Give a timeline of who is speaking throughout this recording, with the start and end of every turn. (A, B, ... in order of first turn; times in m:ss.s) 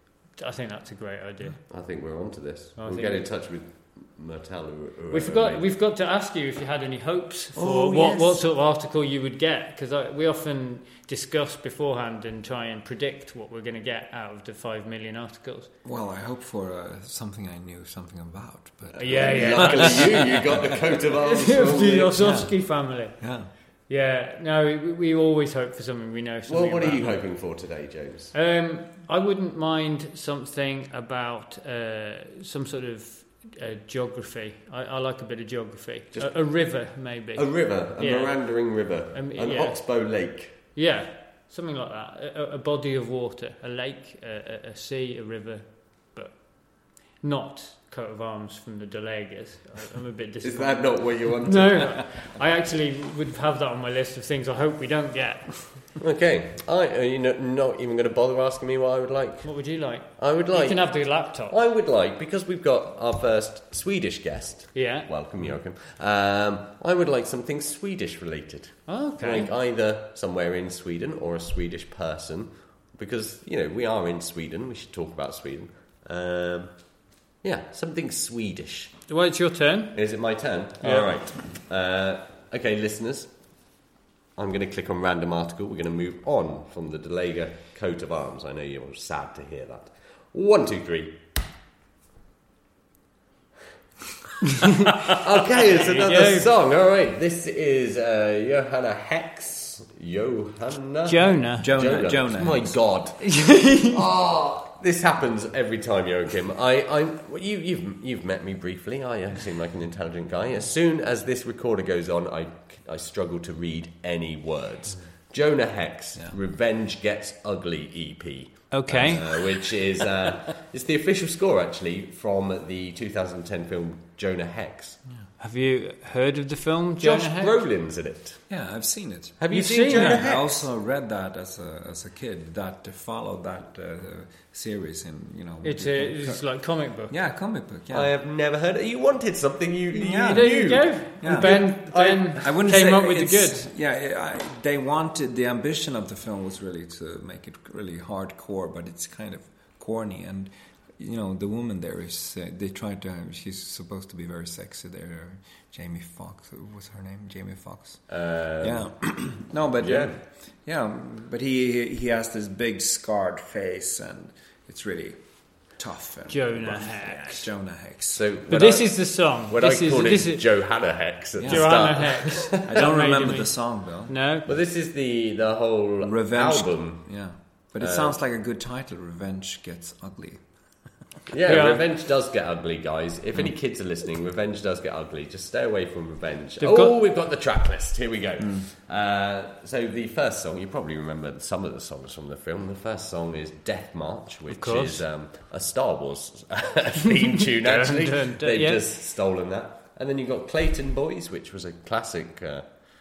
0:00.4-0:01.6 A
0:01.7-0:05.6 B
0:02.8-0:03.3 A
0:05.1-0:15.7 A
0:07.6-0:08.4 C
0:15.8-0:20.8 C
0:19.0-0:22.4 B
0:19.0-0:20.2 A
0:21.2-0:23.2 A
0:22.2-0:23.5 C
0:23.9-0:27.2 A
0:26.5-0:28.3 B
0:28.3-0:39.8 A
0:36.1-0:40.6 B
0:40.8-0:55.9 A
0:50.4-0:52.1 B
0:56.0-1:19.0 B
0:59.4-1:01.6 A
1:04.7-1:05.1 A
1:08.9-1:09.5 A
1:19.1-1:20.0 A
1:19.9-1:23.3 B
1:20.8-1:21.2 A
1:24.4-1:31.2 B
1:34.9-1:36.5 A
1:35.0-2:05.0 B
1:41.1-1:41.7 A
1:41.6-1:42.8 C
1:43.2-1:44.0 A
1:58.7-1:59.2 A
2:05.4-2:07.6 A
2:07.0-2:08.4 B
2:08.5-2:09.4 C
2:09.4-2:10.7 B
2:09.5-2:10.2 A
2:09.9-2:18.1 C
2:15.6-2:17.1 A
2:17.9-2:22.5 B
2:19.9-2:21.6 C
2:20.1-2:23.7 A
2:22.4-2:38.1 C
2:38.1-2:38.9 B
2:38.6-2:48.2 C
2:39.8-2:40.2 B
2:46.3-2:47.5 A
2:48.1-2:52.8 B
2:48.5-2:50.4 A
2:51.4-2:52.1 C
2:51.5-2:53.6 A
2:52.6-2:54.1 C
2:54.1-2:54.5 A
2:54.5-2:57.1 B
2:56.0-3:00.5 C
2:57.8-2:58.2 B
3:01.3-3:22.7 B
3:01.5-3:01.8 A
3:06.6-3:07.0 A
3:14.5-3:15.0 A
3:17.3-3:18.8 A